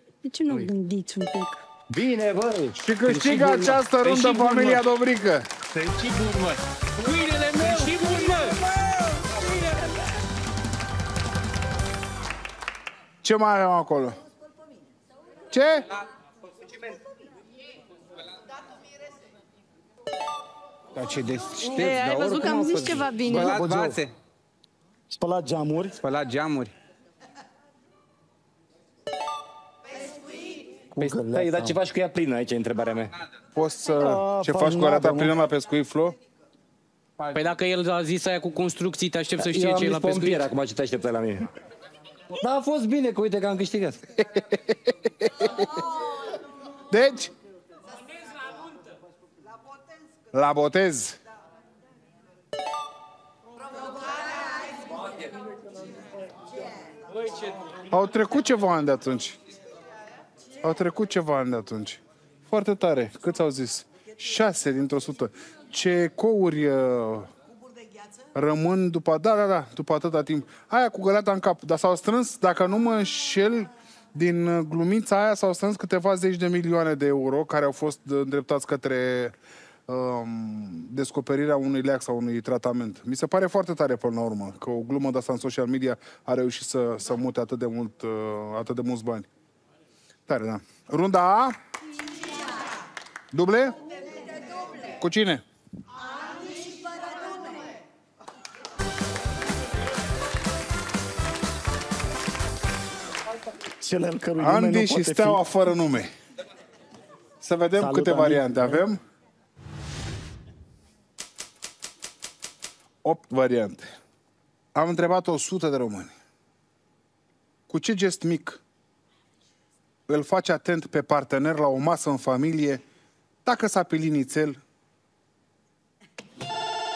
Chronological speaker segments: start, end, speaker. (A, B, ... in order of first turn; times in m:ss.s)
0:00.2-0:01.6 A
0:01.9-0:02.8 B
0:02.7-0:05.5 C
0:03.1-0:04.8 D
0:05.7-0:08.6 D
0:08.9-0:09.8 A
0:13.2-0:14.2 C
0:15.5-0:15.9 C
0:20.9-0:24.1 E
0:21.6-0:23.6 A
0:23.3-0:24.0 F
0:25.1-0:26.0 F
0:26.0-0:26.7 E
0:30.9-0:31.8 F
0:31.0-0:33.1 B
0:33.5-0:36.2 C
0:34.0-0:35.4 F
0:37.2-0:37.4 E
0:37.3-0:40.5 D
0:39.4-0:41.5 B
0:42.3-0:44.1 B
0:45.2-0:45.5 C
0:46.9-0:47.3 C
0:50.3-0:51.2 C
0:57.9-0:59.4 C
1:00.6-1:07.3 C
1:08.3-1:19.3 C
1:19.9-1:29.3 C
1:30.3-1:31.6 C
1:33.3-1:33.8 C
1:35.0-1:35.4 C
1:43.8-1:45.4 F
1:44.4-1:46.1 C
1:47.4-1:49.0 C
1:47.8-1:48.8 F
1:53.0-1:53.9 C
1:54.7-1:56.1 C
1:57.7-1:58.6 C
2:00.1-2:02.8 C
2:03.4-2:04.6 C